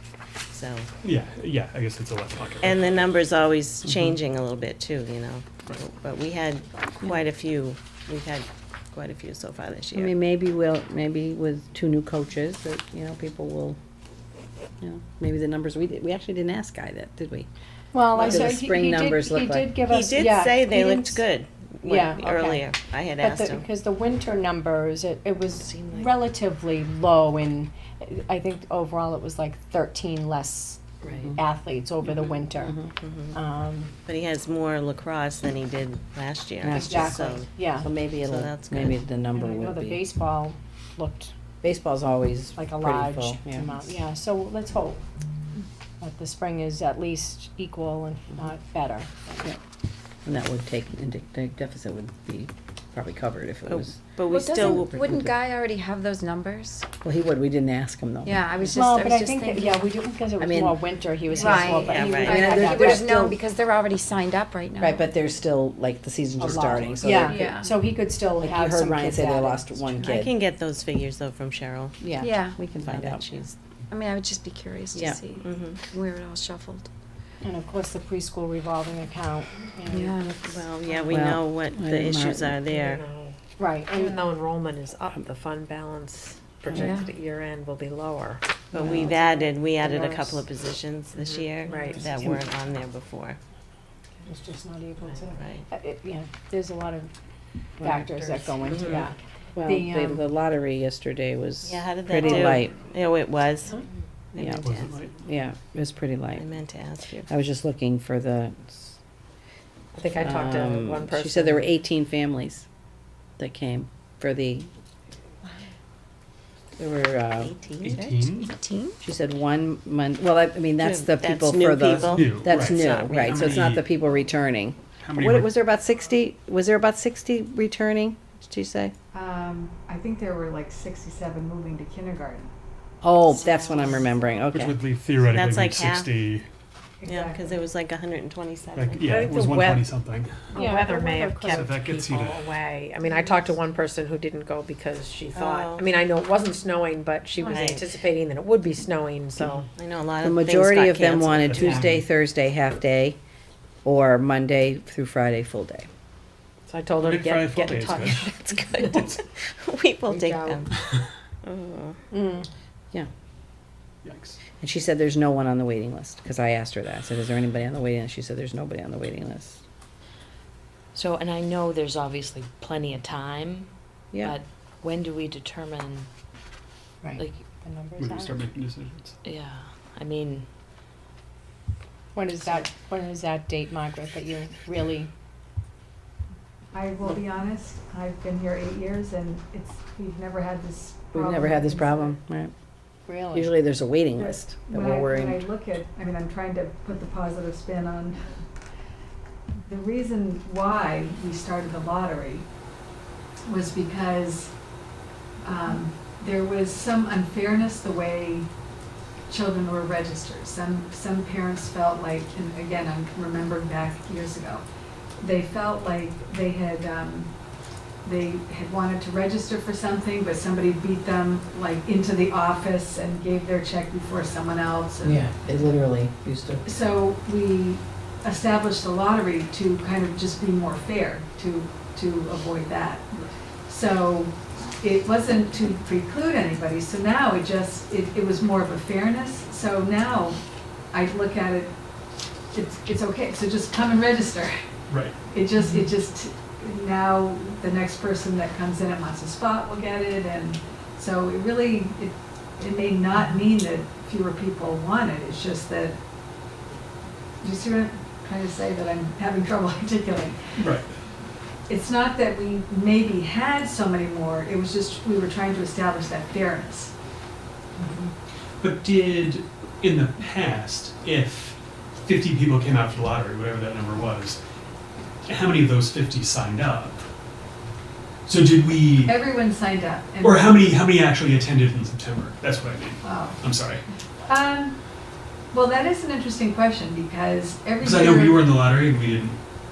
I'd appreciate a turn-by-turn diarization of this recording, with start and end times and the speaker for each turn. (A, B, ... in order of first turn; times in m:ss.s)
0:00.5-0:00.9 A
0:01.0-0:03.1 B
0:02.6-0:10.2 A
0:09.9-0:13.8 C
0:14.8-0:17.5 C
0:17.9-0:21.3 D
0:18.2-0:18.5 A
0:18.2-0:19.7 C
0:19.9-0:23.7 A
0:21.8-0:33.9 D
0:25.6-0:26.2 A
0:32.0-0:32.4 A
0:32.6-0:32.9 C
0:33.0-0:33.4 A
0:34.0-0:37.5 A
0:36.6-0:40.0 C
0:36.7-0:37.9 D
0:38.2-0:39.0 A
0:39.3-0:41.3 D
0:41.6-0:44.0 C
0:42.6-0:45.0 D
0:46.0-0:49.5 D
0:50.2-0:55.3 C
0:53.7-0:55.3 A
0:54.3-0:56.9 E
0:57.0-0:58.5 C
0:58.2-1:00.0 E
0:58.7-1:03.4 D
1:00.4-1:00.8 C
1:01.4-1:05.1 E
1:01.9-1:02.5 A
1:02.2-1:03.4 C
1:04.8-1:07.6 C
1:06.4-1:10.0 D
1:07.2-1:07.7 E
1:08.4-1:10.3 C
1:10.0-1:12.0 A
1:12.0-1:13.3 C
1:12.2-1:12.6 E
1:12.8-1:13.5 A
1:13.9-1:16.9 E
1:14.9-1:15.2 C
1:15.4-1:15.8 A
1:17.4-1:20.6 D
1:19.9-1:20.4 E
1:20.4-1:23.0 A
1:21.1-1:22.6 C
1:22.7-1:28.4 F
1:23.6-1:24.1 D
1:26.7-1:27.0 D
1:26.7-1:27.1 E
1:28.7-1:33.4 A
1:28.8-1:29.1 C
1:29.9-1:30.4 D
1:31.2-1:32.0 F
1:31.7-1:32.2 D
1:32.1-1:32.4 C
1:34.2-1:37.1 D
1:35.3-1:35.7 A
1:37.8-1:38.1 C
1:37.8-1:40.2 D
1:38.7-1:39.1 A
1:39.6-1:42.7 C
1:41.6-1:43.8 A
1:44.3-1:45.0 A
1:44.4-1:44.6 C
1:44.6-1:45.2 B
1:45.2-1:46.4 C
1:46.4-1:47.3 A
1:47.3-1:49.0 C
1:49.9-1:51.6 F
1:50.2-1:52.6 C
1:53.4-1:54.7 C
1:56.8-1:57.5 C
1:57.4-1:58.1 A
1:57.8-1:58.5 B
1:58.2-1:59.0 E
1:59.0-2:08.9 C
2:00.8-2:03.6 A
2:01.9-2:03.8 B
2:05.0-2:05.5 B
2:09.1-2:12.5 G
2:13.0-2:14.8 C
2:13.3-2:14.1 A
2:14.5-2:16.5 B
2:15.3-2:16.1 A
2:17.0-2:17.6 G
2:17.0-2:19.2 A
2:18.8-2:20.7 B
2:19.1-2:19.8 F
2:20.5-2:21.7 D
2:20.6-2:29.7 F
2:21.4-2:22.6 B
2:23.0-2:23.5 D
2:25.3-2:25.9 A
2:27.4-2:27.9 A
2:29.7-2:31.8 A
2:30.2-2:33.2 C
2:31.4-2:32.1 B
2:33.8-2:35.9 C
2:36.7-2:38.3 F
2:37.0-2:39.2 B
2:38.3-2:40.7 A
2:40.1-2:40.6 F
2:40.7-2:41.0 B
2:41.4-2:42.0 A
2:42.1-2:42.5 D
2:44.0-2:44.4 B
2:44.6-2:49.6 C
2:51.0-2:53.7 H
2:54.3-2:56.1 H
2:57.0-2:58.4 D
2:58.0-2:59.2 B
2:59.3-2:59.6 H
3:00.1-3:00.4 H
3:02.1-3:05.1 D
3:06.7-3:12.2 G
3:11.1-3:12.5 C
3:13.1-3:13.5 D
3:13.3-3:15.4 C
3:14.2-3:18.4 G
3:19.6-3:22.4 G
3:23.5-3:24.5 G
3:25.4-3:28.5 G
3:29.3-3:34.6 G
3:35.2-3:37.3 G
3:38.0-3:45.3 G
3:45.0-3:46.6 C
3:46.6-3:53.1 G
3:53.7-4:00.4 G
4:00.9-4:01.7 G
4:02.5-4:04.6 G
4:04.9-4:05.2 B
4:05.3-4:16.0 G
4:17.4-4:20.4 G
4:20.6-4:20.9 B
4:21.7-4:26.9 G
4:27.8-4:28.1 B
4:28.6-4:34.4 B
4:35.3-4:37.1 B
4:38.3-4:39.2 B
4:39.1-4:40.6 G
4:40.2-4:43.8 B
4:43.0-4:43.4 G
4:44.3-4:44.8 G
4:45.5-4:48.4 G
4:47.8-4:49.4 B